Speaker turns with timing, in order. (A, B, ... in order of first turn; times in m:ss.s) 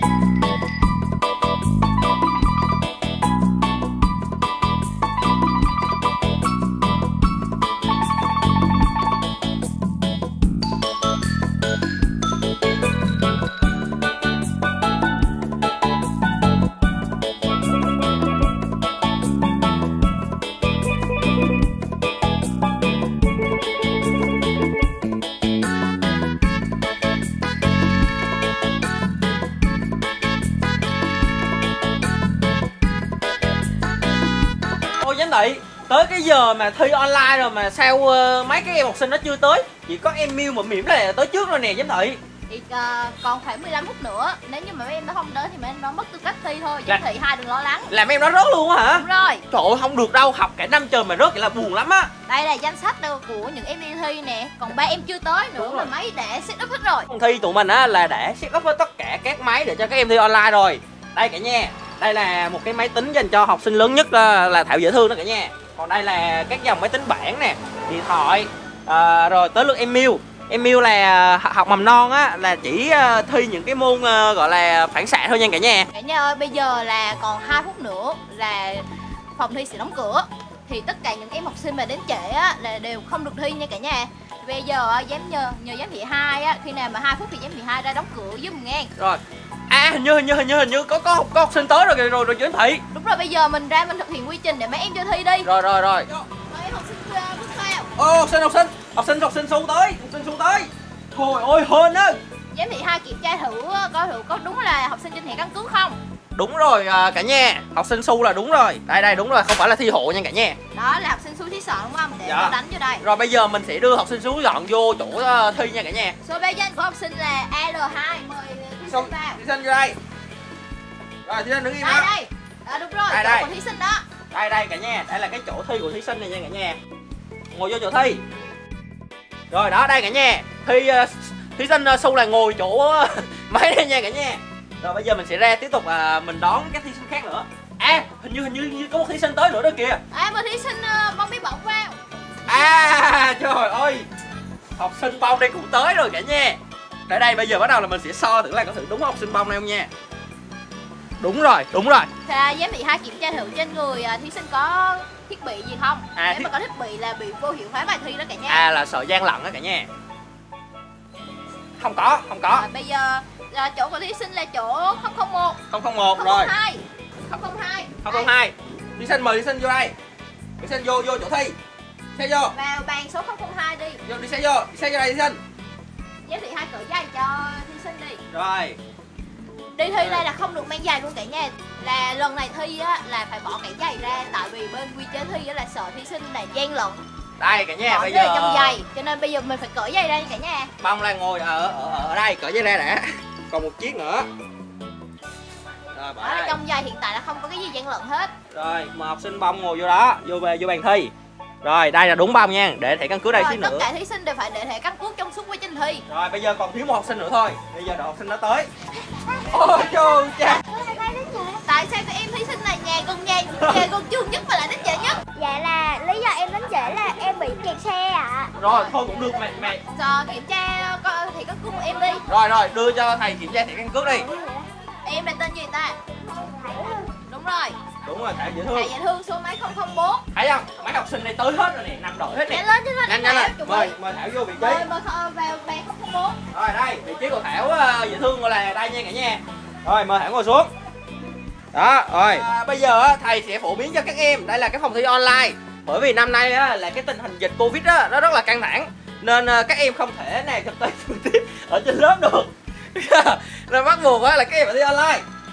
0:35.0-0:42.2 A
0:42.5-0:47.9 B
0:47.9-0:52.1 A
0:48.9-0:49.4 B
0:52.3-0:57.1 B
0:55.6-0:55.9 A
0:57.1-1:15.9 A
1:15.9-1:28.9 B
1:29.0-1:32.8 A
1:32.9-1:35.5 B
1:35.4-1:36.1 A
1:36.4-1:37.9 B
1:38.0-1:42.2 A
1:42.5-1:46.0 B
1:46.4-1:50.6 A
1:50.7-1:53.0 B
1:52.2-1:56.2 A
1:56.2-1:59.4 B
1:58.8-2:00.0 A
2:01.2-2:02.1 A
2:01.8-2:04.0 B
2:03.1-2:03.5 A
2:04.3-2:06.8 A
2:07.5-2:08.2 A
2:09.5-2:20.0 A
2:20.1-2:23.0 B
2:22.5-2:24.1 A
2:24.8-2:29.9 A
2:31.2-2:32.1 A
2:32.2-2:38.6 B
2:36.2-2:36.5 A
2:38.5-2:39.9 A
2:41.8-2:42.6 A
2:42.5-2:45.6 B
2:45.7-2:46.5 A
2:46.1-2:48.3 B
2:48.0-2:49.9 A
2:50.6-2:51.6 A
2:52.2-2:52.5 A
2:52.5-2:54.0 B
2:54.0-2:55.4 A
2:56.2-2:58.2 B
2:58.3-2:58.8 A
2:59.7-3:07.0 B
3:00.0-3:00.2 A
3:07.4-3:08.8 A
3:07.9-3:10.7 B
3:10.8-3:14.3 A
3:15.9-3:16.6 A
3:16.2-3:18.3 B
3:18.5-3:21.1 A
3:21.6-3:23.9 A
3:23.3-3:26.0 B
3:26.1-3:28.7 A
3:29.5-3:30.6 A
3:30.6-3:31.6 C
3:31.6-3:35.2 B
3:35.3-3:38.6 C
3:38.6-3:39.8 A
3:39.9-3:42.2 B
3:42.3-3:44.3 A
3:44.2-3:44.7 C
3:45.0-3:46.0 B
3:46.3-3:47.1 C
3:47.2-3:47.8 B
3:48.0-3:48.9 A
3:48.7-3:50.2 B
3:50.3-3:54.8 A
3:52.5-3:54.0 B
3:54.6-3:56.4 B
3:56.5-4:00.7 A
4:01.7-4:15.2 A